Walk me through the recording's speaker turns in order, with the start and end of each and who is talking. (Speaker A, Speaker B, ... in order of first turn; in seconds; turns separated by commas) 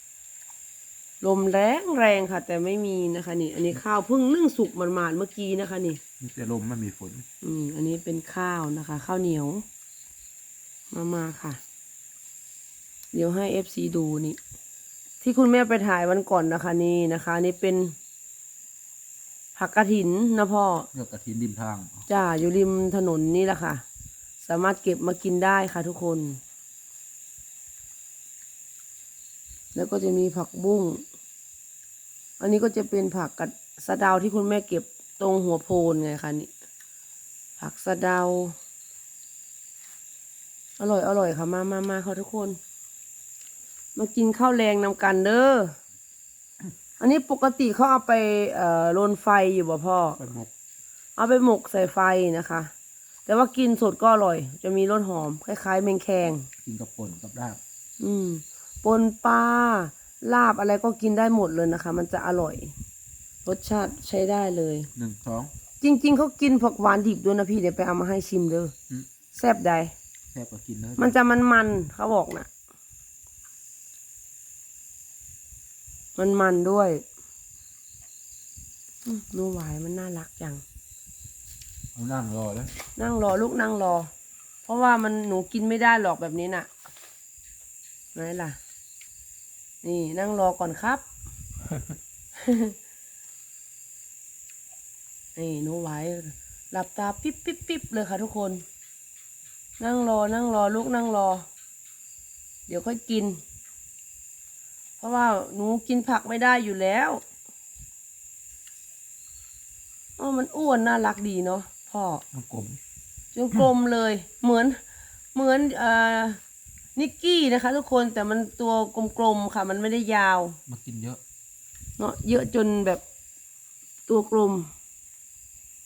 Speaker A: 1.2-6.0, Speaker B: 6.2-7.2, Speaker A: 7.4-9.6, Speaker A: 10.9-11.6, Speaker A: 13.1-14.4, Speaker A: 15.2-17.9, Speaker A: 19.6-20.9, Speaker B: 20.9-22.1, Speaker A: 22.1-23.8, Speaker A: 24.4-26.4, Speaker A: 29.8-31.0, Speaker A: 32.4-36.5, Speaker A: 37.6-38.6, Speaker A: 40.8-42.6, Speaker A: 44.0-45.8, Speaker A: 47.0-50.2, Speaker B: 50.2-50.5, Speaker A: 51.2-52.7, Speaker A: 53.3-56.5, Speaker B: 56.6-57.6, Speaker A: 58.0-62.7, Speaker A: 63.5-64.9, Speaker B: 65.0-65.5, Speaker A: 65.8-68.7, Speaker A: 69.3-69.9, Speaker B: 70.3-71.2, Speaker A: 71.0-72.5, Speaker A: 76.2-77.0, Speaker A: 79.0-80.6, Speaker B: 82.0-82.7, Speaker A: 83.0-84.1, Speaker A: 84.7-86.7, Speaker A: 88.2-88.6, Speaker A: 89.8-91.0, Speaker A: 92.4-92.8, Speaker A: 95.4-98.6, Speaker A: 99.8-101.5, Speaker A: 102.7-103.4, Speaker A: 105.0-107.2, Speaker A: 110.2-112.2, Speaker B: 112.3-112.8, Speaker A: 113.3-114.8, Speaker A: 115.3-116.4, Speaker A: 117.0-120.6, Speaker B: 120.7-121.2, Speaker A: 122.0-123.0, Speaker A: 124.1-124.7